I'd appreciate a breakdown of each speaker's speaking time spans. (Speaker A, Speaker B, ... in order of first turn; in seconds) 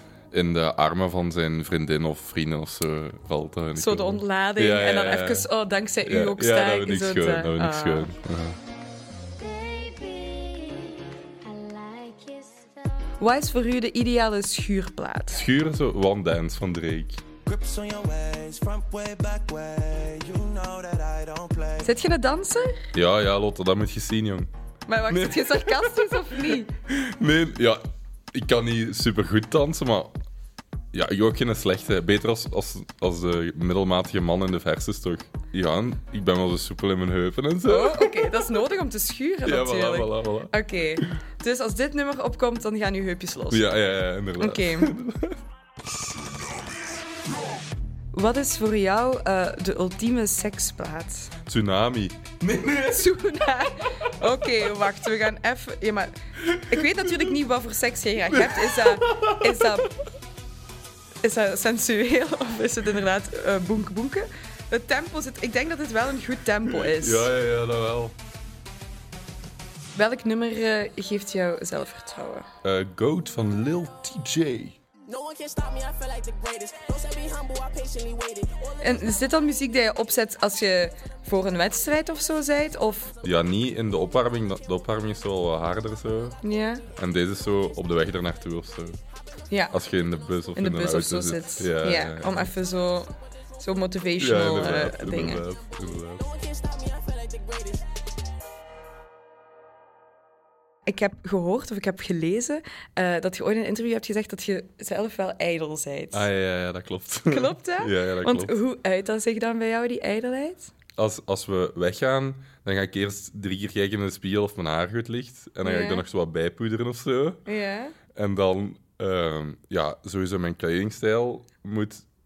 Speaker A: 0.3-5.5, 6.0-8.6, 15.3-17.2, 22.9-24.5, 25.1-30.2, 30.9-38.6, 39.5-41.1, 43.5-45.4, 46.2-46.6, 51.5-53.1, 54.0-54.9, 56.5-57.3, 58.3-59.9, 66.7-68.2, 72.6-74.8, 83.2-89.0, 89.7-92.5, 94.2-96.2, 106.1-108.6, 111.0-117.4, 118.1-122.0
Speaker B: 3.8-8.1, 13.2-15.5, 21.8-22.9, 24.9-26.7, 37.6-43.7, 44.4-44.9, 48.1-51.3, 52.9-59.9, 61.2-67.3, 70.0-72.5, 78.8-83.2, 86.4-86.9, 89.5-89.8, 90.5-95.4, 100.9-106.3, 107.3-110.7, 115.6-116.0, 117.5-118.0
Speaker C: 9.4-12.9
Speaker D: 17.5-21.9
Speaker E: 75.1-79.1, 95.5-97.9